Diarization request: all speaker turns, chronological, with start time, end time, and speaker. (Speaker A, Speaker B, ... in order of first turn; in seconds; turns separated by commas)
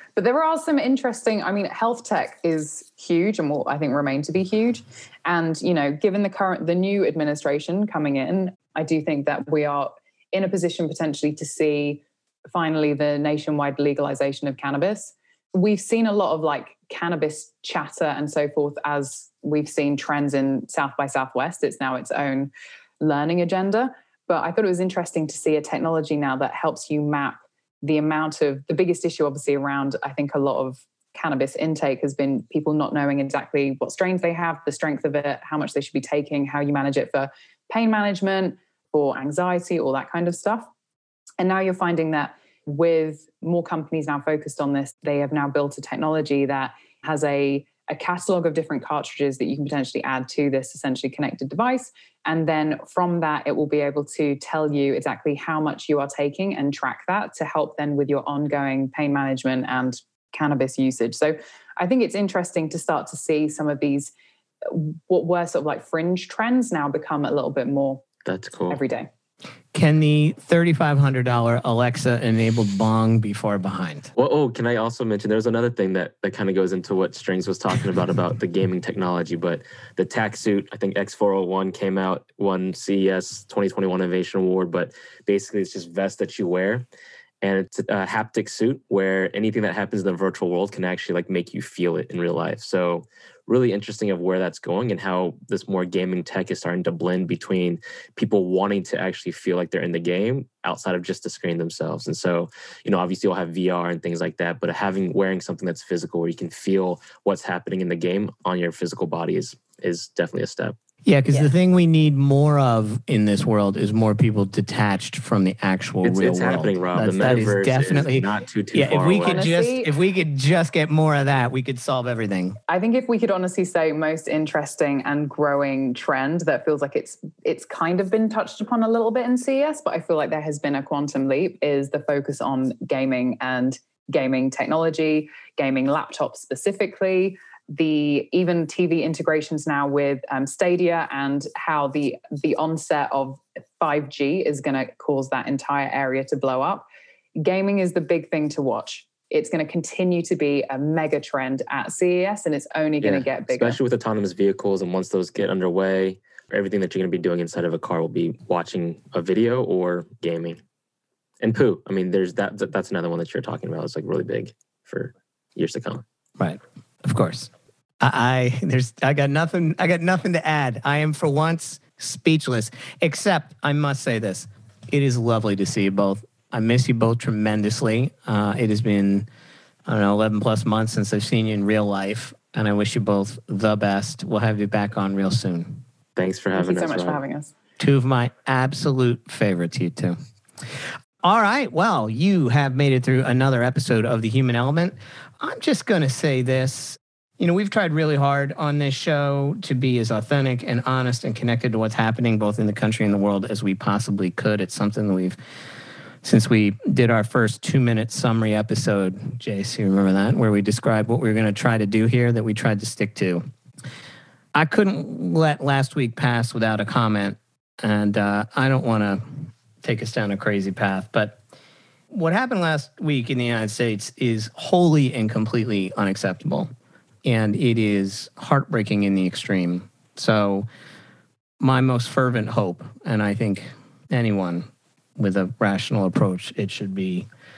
Speaker A: 0.1-40.7, Speaker A: 41.4-64.1, Speaker A: 64.6-68.0, Speaker B: 68.2-68.8, Speaker A: 68.7-69.1, Speaker C: 69.7-74.1, Speaker B: 74.1-86.8, Speaker B: 87.4-110.8, Speaker C: 111.0-122.6, Speaker B: 116.0-119.4, Speaker A: 119.2-119.9, Speaker A: 122.7-146.8, Speaker A: 147.4-153.8, Speaker B: 153.0-160.6, Speaker B: 161.4-166.0, Speaker C: 166.4-179.3, Speaker C: 179.8-185.8, Speaker B: 186.2-187.2, Speaker A: 186.5-187.5, Speaker C: 187.8-190.2, Speaker C: 191.2-205.4, Speaker C: 206.2-213.4, Speaker C: 214.5-221.4, Speaker C: 222.1-226.7, Speaker C: 227.2-230.7, Speaker C: 231.6-237.3